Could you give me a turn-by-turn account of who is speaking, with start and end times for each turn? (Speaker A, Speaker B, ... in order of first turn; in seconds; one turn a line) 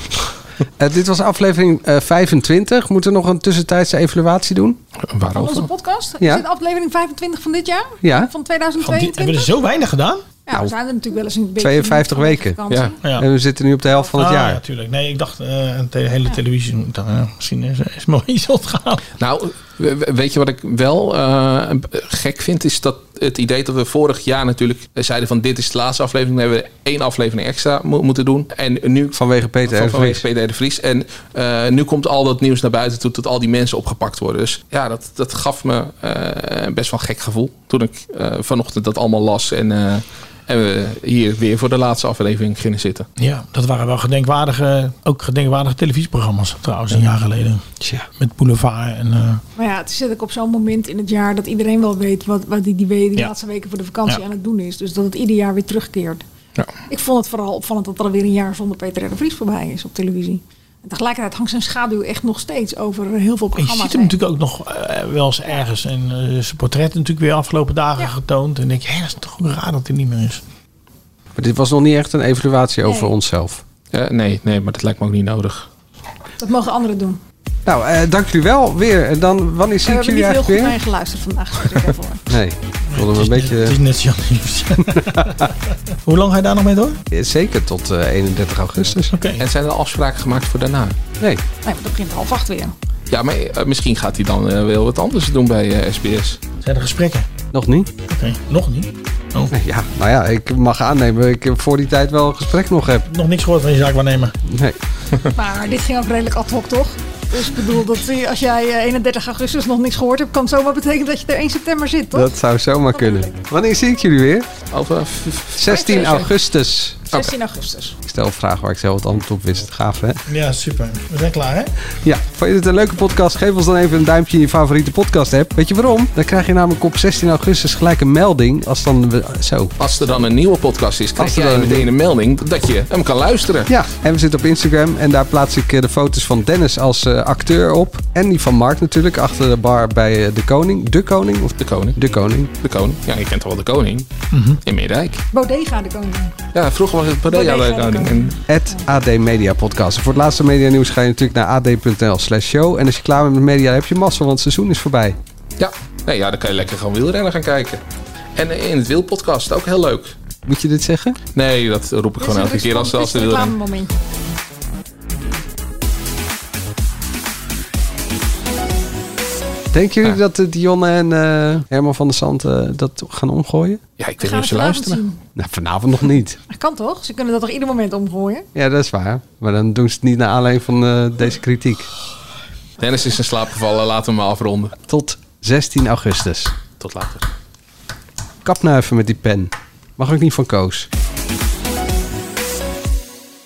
Speaker A: 0.8-4.8
Speaker B: 5.0-5.7
Speaker C: 5.3-9.5
Speaker A: 8.0-8.3
Speaker D: 8.8-10.2
Speaker C: 10.4-13.0
Speaker A: 11.6-12.6
Speaker A: 13.2-14.6
Speaker D: 14.1-19.0
Speaker B: 19.2-43.1
Speaker A: 29.1-30.2
Speaker D: 43.2-47.6
Speaker A: 47.8-48.0
Speaker D: 48.2-49.4
Speaker C: 49.6-56.2
Speaker C: 56.9-64.1
Speaker D: 63.5-70.4
Speaker A: 71.3-73.6
Speaker C: 72.8-73.1
Speaker B: 73.9-75.7
Speaker C: 76.4-77.2
Speaker A: 77.7-80.8
Speaker C: 79.8-82.2
Speaker A: 82.3-83.8
Speaker D: 82.9-87.0
Speaker A: 87.1-89.2
Speaker D: 89.1-89.4
Speaker B: 89.4-91.0
Speaker C: 91.6-92.7
Speaker B: 93.1-96.4
Speaker D: 96.6-97.3
Speaker A: 97.5-97.9
Speaker D: 98.1-99.5
Speaker A: 99.5-103.1
Speaker D: 103.1-104.3
Speaker A: 104.5-104.8
Speaker C: 105.3-112.3
Speaker A: 112.1-114.5
Speaker C: 112.9-113.3
Speaker B: 114.7-115.6
Speaker A: 115.6-117.0
Speaker C: 115.6-116.3
Speaker C: 117.1-118.0
Speaker A: 118.1-120.2
Speaker D: 120.3-121.7
Speaker A: 122.0-129.8
Speaker B: 129.8-133.7
Speaker A: 131.2-131.9
Speaker A: 133.7-142.5
Speaker B: 141.6-142.0
Speaker B: 142.6-144.1
Speaker D: 144.3-144.6
Speaker B: 144.6-145.2
Speaker C: 145.3-146.3
Speaker B: 146.5-148.4
Speaker C: 147.3-148.8
Speaker A: 148.5-155.2
Speaker B: 155.6-157.8
Speaker B: 158.3-160.1
Speaker A: 160.4-161.2
Speaker B: 161.3-163.5
Speaker C: 162.2-163.9
Speaker A: 169.7-173.8
Speaker B: 174.0-175.0
Speaker C: 174.2-175.2
Speaker A: 175.3-176.4
Speaker C: 176.5-178.5
Speaker A: 178.5-181.9
Speaker B: 182.8-184.8
Speaker A: 184.9-186.5
Speaker B: 186.8-187.2
Speaker A: 188.4-190.9